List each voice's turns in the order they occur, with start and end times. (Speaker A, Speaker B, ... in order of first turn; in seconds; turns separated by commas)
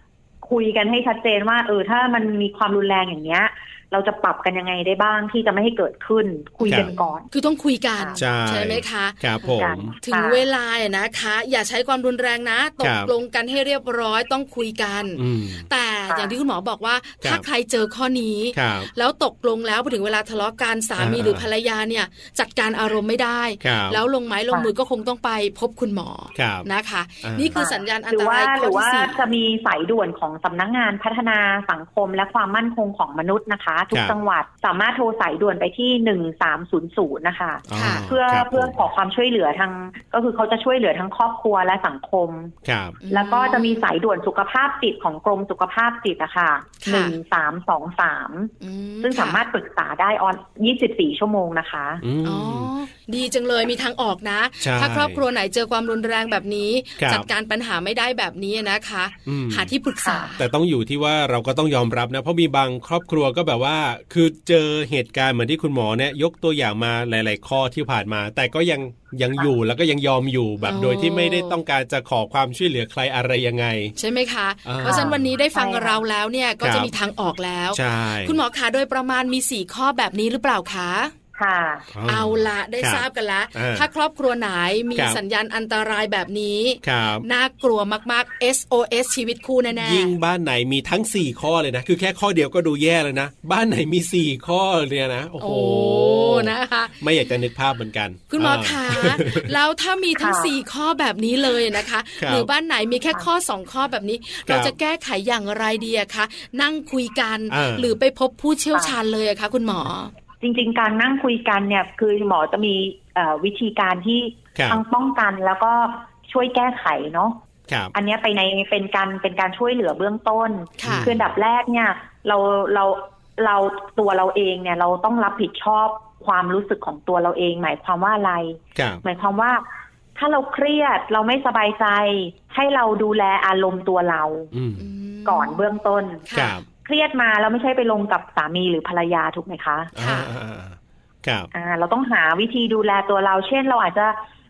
Speaker A: 0.4-7.3, Speaker B: 6.7-29.2, Speaker C: 8.2-9.9, Speaker A: 9.6-10.4, Speaker C: 12.8-13.1, Speaker C: 15.2-15.7, Speaker A: 16.1-16.4, Speaker C: 18.5-18.9, Speaker C: 21.0-21.5, Speaker C: 23.6-24.0, Speaker C: 26.4-26.7, Speaker C: 27.2-27.6, Speaker A: 27.6-42.5, Speaker C: 37.7-38.8, Speaker B: 37.7-38.1, Speaker C: 42.6-43.0, Speaker B: 43.0-43.8, Speaker A: 43.1-48.5, Speaker B: 46.8-47.2, Speaker B: 48.6-49.4, Speaker A: 49.0-52.0, Speaker C: 52.0-52.7, Speaker B: 52.2-60.4, Speaker C: 54.6-55.2, Speaker C: 57.0-57.3, Speaker C: 59.3-59.7, Speaker A: 60.0-60.3, Speaker C: 60.4-73.9, Speaker B: 70.6-71.6, Speaker B: 74.0-81.1, Speaker C: 74.7-75.3, Speaker A: 74.8-76.0, Speaker C: 76.6-76.9, Speaker C: 77.7-78.4, Speaker A: 81.4-81.9, Speaker C: 81.9-83.9, Speaker B: 82.0-90.1, Speaker C: 85.0-85.2, Speaker C: 86.8-87.3, Speaker C: 89.8-99.5, Speaker B: 95.4-97.0, Speaker B: 98.3-110.1, Speaker A: 100.2-100.5, Speaker C: 102.2-102.5, Speaker C: 104.5-104.8, Speaker C: 107.5-108.0, Speaker A: 110.4-117.4, Speaker C: 114.6-114.8, Speaker A: 117.9-129.6, Speaker B: 120.8-121.1, Speaker C: 120.9-121.2, Speaker C: 128.8-129.0, Speaker A: 130.2-134.5, Speaker C: 134.5-134.8, Speaker B: 134.8-135.6, Speaker A: 135.3-136.2, Speaker B: 136.3-136.6, Speaker C: 136.3-136.6, Speaker A: 136.8-139.9, Speaker C: 139.9-141.5, Speaker B: 140.0-140.3, Speaker A: 141.5-144.2